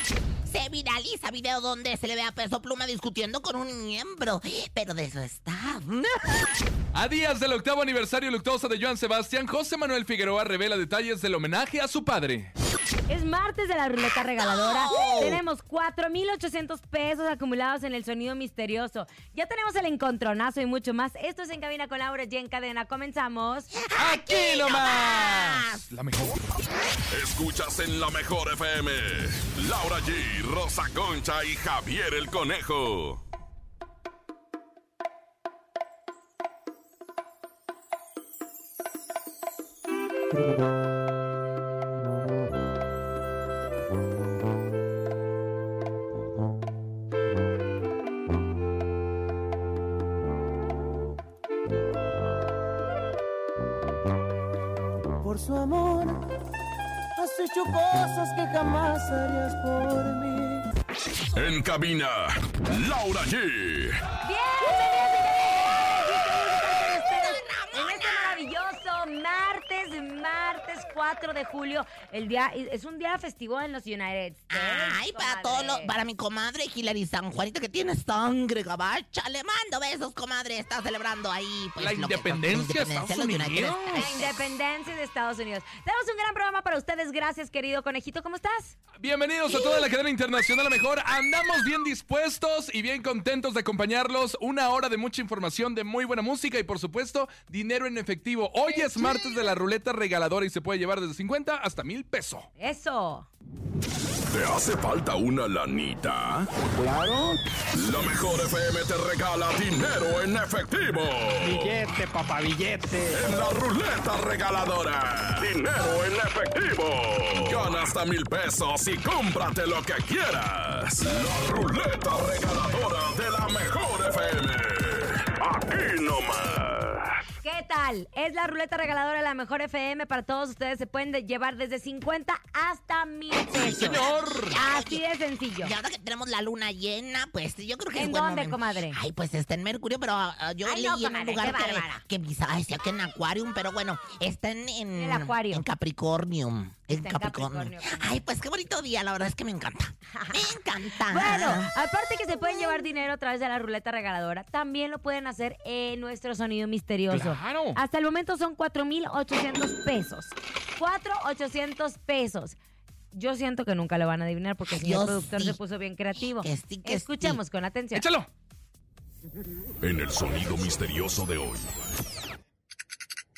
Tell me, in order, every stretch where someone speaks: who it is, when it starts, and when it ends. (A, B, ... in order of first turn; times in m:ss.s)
0:00.5-0:06.5 A
0:06.9-0:12.5 B
0:13.1-0:23.7 C
0:14.4-0:15.4 A
0:23.8-0:25.8 A
0:24.0-0:26.5 B
0:27.1-0:33.2 D
0:55.2-0:56.2 E
0:57.2-1:00.6 E
1:01.4-1:04.0 D
1:04.2-1:16.0 C
1:07.1-1:08.4 A
1:14.5-1:24.4 A
1:21.8-1:24.1 B
1:23.9-1:28.8 C
1:29.0-1:42.5 B
1:29.5-1:29.8 A
1:42.6-1:43.3 C
1:44.3-1:46.5 D
1:46.8-1:47.4 F
1:47.8-1:51.8 D
1:51.6-1:53.2 F
1:53.1-2:07.2 D
2:07.4-2:15.7 C
2:13.6-2:14.6 B
2:13.6-2:15.0 A
2:15.6-2:31.7 A
2:18.0-2:19.0 C
2:20.6-2:22.0 C
2:25.0-2:25.7 C
2:26.9-2:28.2 C
2:30.1-2:30.5 C
2:31.1-2:42.6 C
2:37.1-2:37.8 B
2:43.1-2:48.0 C
2:44.7-2:45.6 A
2:46.3-2:47.4 A
2:47.9-2:48.3 B
2:49.8-2:51.7 D